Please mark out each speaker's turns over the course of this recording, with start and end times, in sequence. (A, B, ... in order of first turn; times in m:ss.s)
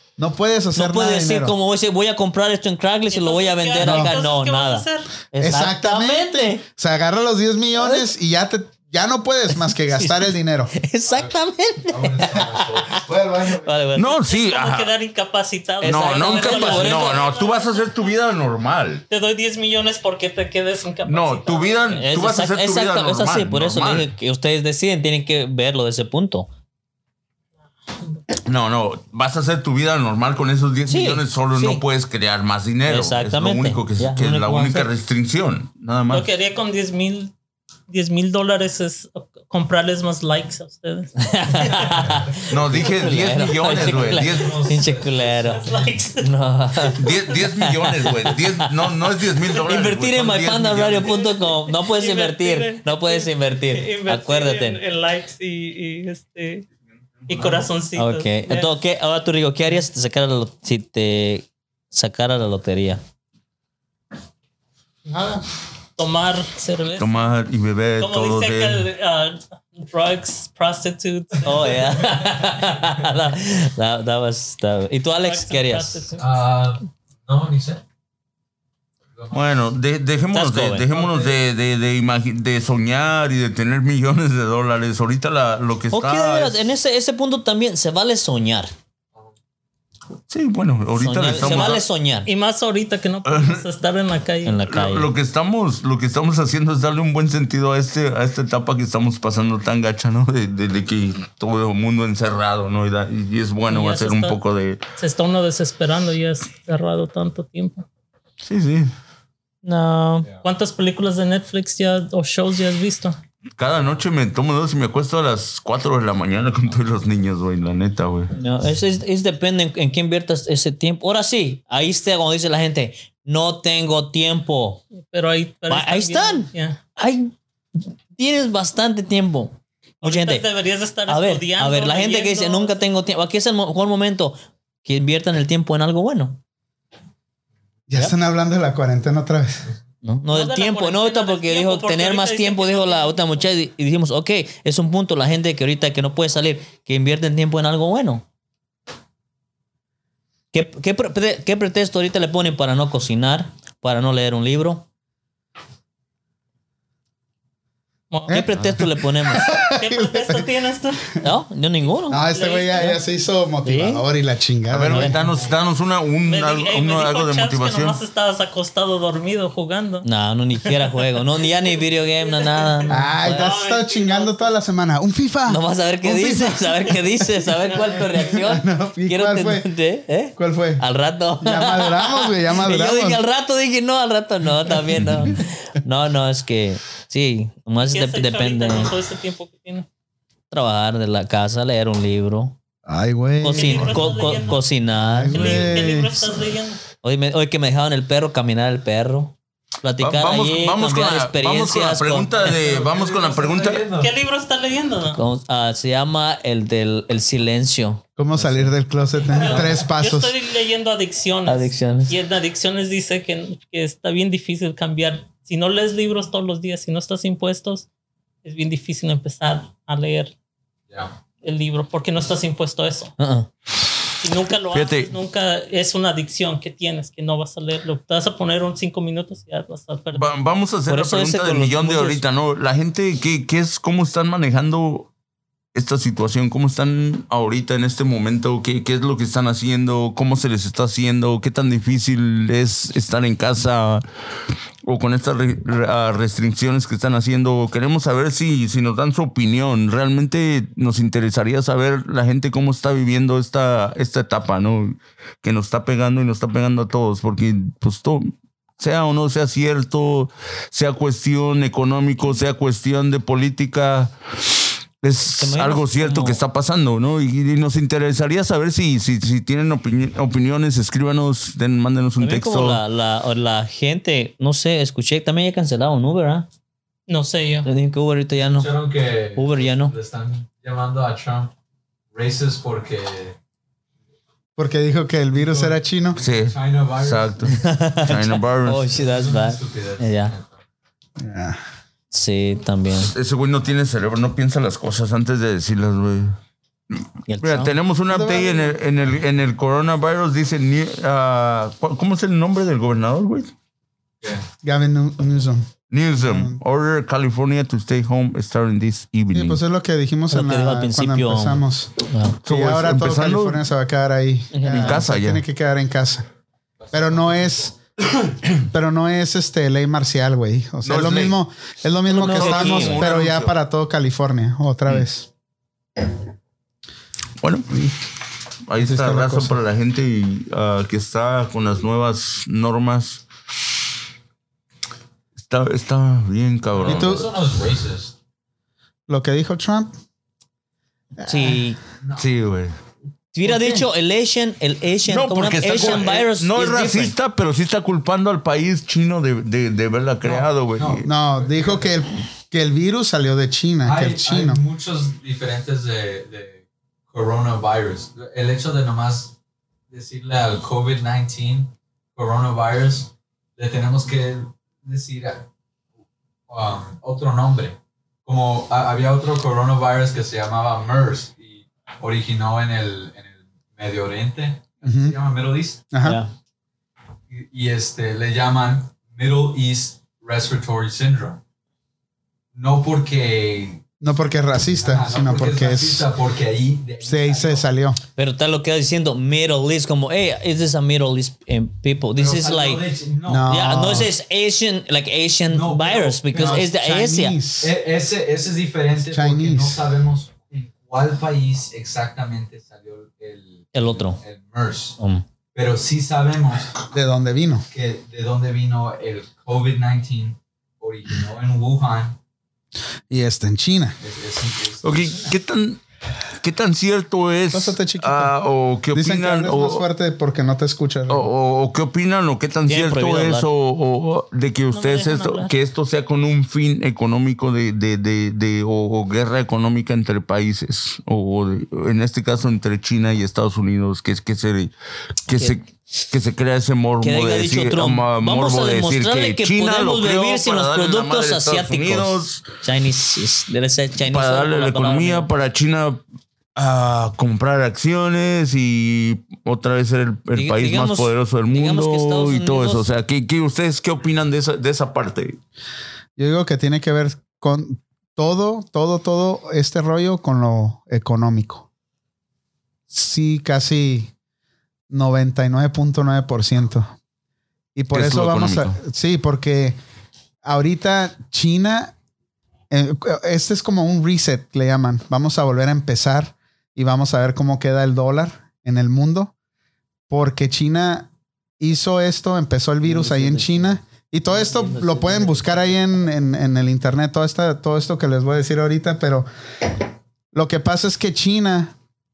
0:00.2-0:01.6 A
0:00.7-0:06.6 B
0:03.1-0:05.1 C
0:03.8-0:04.2 A
0:05.4-0:10.7 A
0:07.8-0:08.1 B
0:09.8-0:13.0 B
0:11.1-0:13.1 D
0:13.0-0:13.7 A
0:13.5-0:14.2 B
0:13.9-0:14.9 E
0:14.2-0:18.1 C
0:15.8-0:17.2 B
0:15.8-0:19.0 E
0:19.1-0:22.1 C
0:21.0-0:24.1 E
0:21.9-0:26.5 B
0:28.4-0:36.3 E
0:30.9-0:31.8 B
0:32.9-0:34.9 B
0:36.1-0:37.3 C
0:37.9-0:42.1 C
0:41.2-0:48.7 B
0:42.0-0:42.4 D
0:42.5-0:44.7 E
0:43.6-0:45.9 D
0:45.6-0:47.2 C
0:47.0-0:51.2 E
0:49.5-0:54.8 B
0:51.0-0:56.6 C
0:57.3-0:58.7 C
0:58.0-1:03.0 B
1:05.0-1:07.1 C
1:07.0-1:08.9 E
1:08.0-1:12.0 C
1:11.4-1:16.1 B
1:15.2-1:16.3 C
1:16.2-1:17.8 D
1:19.1-1:19.6 D
1:19.3-1:26.6 E
1:20.3-1:20.9 B
1:20.9-1:21.3 D
1:25.9-1:28.7 B
1:30.3-1:31.8 E
1:31.0-1:32.3 B
1:31.3-1:34.6 C
1:33.2-1:33.6 E
1:34.4-1:35.1 B
1:34.7-1:44.8 E
1:43.7-1:44.4 C
1:45.0-1:47.8 C
1:48.4-1:48.9 E
1:49.6-1:50.3 B
1:50.4-1:53.2 C
1:53.6-1:58.3 E
1:58.3-2:04.8 B
2:05.0-2:06.8 C
2:05.7-2:10.4 B
2:10.0-2:12.8 C
2:11.1-2:16.4 B
2:17.9-2:19.6 A
2:20.0-2:28.2 B
2:20.3-2:23.4 C
2:30.5-2:34.8 B
2:38.1-2:38.4 C
2:38.3-2:40.5 A
2:38.3-2:39.5 B
2:39.7-2:41.2 C
2:41.2-2:42.2 B
2:42.1-2:45.2 A
2:42.2-2:42.9 C
2:43.6-2:44.0 B
2:44.7-2:48.0 E
2:44.9-2:45.2 B
2:45.2-2:45.5 D
2:46.3-2:50.1 C
2:50.0-2:53.5 B
2:50.6-2:51.2 C
2:52.2-2:54.5 C
2:52.9-2:57.0 A
2:55.5-3:08.9 B
2:57.7-2:58.0 C
2:58.1-2:59.7 A
3:00.4-3:00.8 A
3:01.4-3:03.2 A
3:07.9-3:09.8 C
3:10.5-3:12.5 B
3:12.9-3:14.3 A
3:13.4-3:15.8 B
3:13.5-3:14.6 C
3:15.0-3:16.3 A
3:15.3-3:16.8 C
3:17.0-3:22.5 B
3:20.0-3:23.8 E
3:22.4-3:24.1 D
3:24.0-3:25.2 C
3:25.1-3:28.7 B
3:28.2-3:30.3 A
3:29.4-3:29.8 D
3:29.4-3:37.8 C
3:31.4-3:32.2 B
3:38.4-3:40.3 C
3:40.9-3:41.2 D
3:41.4-3:43.1 C
3:43.2-3:43.5 B
3:44.2-3:50.3 C
3:44.7-3:45.1 E
3:50.1-3:55.1 E
3:50.9-3:52.2 B
3:55.7-4:04.0 E
4:04.8-4:32.8 E
4:25.4-4:26.4 B
4:32.2-4:36.5 B
4:37.1-4:37.7 C
4:37.6-4:38.7 B
4:38.5-4:41.5 D
4:39.3-4:39.9 B
4:42.1-4:43.4 D
4:44.6-4:46.2 A
4:45.3-4:47.6 D
4:46.2-4:48.9 E
4:47.5-4:50.3 B
4:48.9-4:50.6 D
4:51.2-4:51.6 A
4:52.1-4:53.1 B
4:52.9-4:56.4 E
4:57.0-5:03.5 E
4:57.3-4:57.8 B
4:58.1-4:58.7 A
5:04.2-5:04.5 D
5:04.6-5:06.6 A
5:05.9-5:09.6 E
5:09.3-5:11.9 A
5:10.3-5:12.4 B
5:12.4-5:13.6 E
5:12.4-5:16.2 A
5:14.5-5:15.0 B
5:14.7-5:15.4 E
5:16.8-5:17.8 D
5:16.9-5:17.7 A
5:18.7-5:25.3 A
5:20.8-5:21.4 E
5:22.1-5:23.0 B
5:22.2-5:23.5 E
5:27.4-5:27.7 E
5:28.7-5:33.2 E
5:28.8-5:29.6 A
5:35.4-5:37.2 E
5:36.8-5:38.1 D
5:36.8-5:37.3 A
5:39.1-5:40.0 A
5:41.2-5:41.6 A
5:41.2-5:41.8 B
5:42.0-5:42.3 D
5:42.2-5:42.8 E
5:43.3-5:47.1 B
5:43.4-5:43.8 A
5:45.1-5:51.0 E
5:50.2-5:52.0 D
5:51.0-5:54.6 A
5:53.8-5:59.4 D
5:59.9-6:05.5 D
6:06.5-6:15.9 D
6:14.8-6:15.1 A
6:15.9-6:16.2 A
6:16.0-6:16.3 B
6:17.3-6:21.4 D
6:22.5-6:23.8 D
6:24.0-6:26.1 A
6:24.8-6:27.7 D
6:27.0-6:28.0 A
6:28.2-6:32.8 B
6:32.1-6:33.5 D
6:33.2-6:34.1 A
6:33.4-6:37.4 B
6:35.5-6:36.7 D
6:36.3-6:37.7 A
6:37.6-6:45.0 D
6:39.1-6:39.8 A
6:43.7-6:44.2 B
6:45.0-6:45.2 B
6:45.5-6:46.8 D
6:46.9-6:47.6 A
6:47.7-6:52.2 D
6:53.1-6:54.0 A
6:54.0-6:55.4 D
6:54.8-6:55.8 E
6:56.4-6:59.8 E
6:57.5-6:58.3 A
6:58.9-7:01.3 A
7:01.1-7:14.7 E
7:02.7-7:03.5 B
7:04.7-7:05.5 C
7:15.2-7:22.4 E
7:15.3-7:15.6 B
7:17.0-7:25.3 B
7:24.1-7:26.0 E
7:26.6-7:35.4 E
7:30.3-7:32.8 B
7:36.2-7:41.6 A
7:42.9-7:44.1 A
7:44.9-7:46.9 A
7:47.8-7:49.8 A
7:47.9-7:48.8 E
7:50.4-7:51.9 A
7:52.7-7:59.3 A
8:00.1-8:01.1 A
8:01.6-8:09.3 A
8:02.8-8:05.8 B
8:10.3-8:11.7 A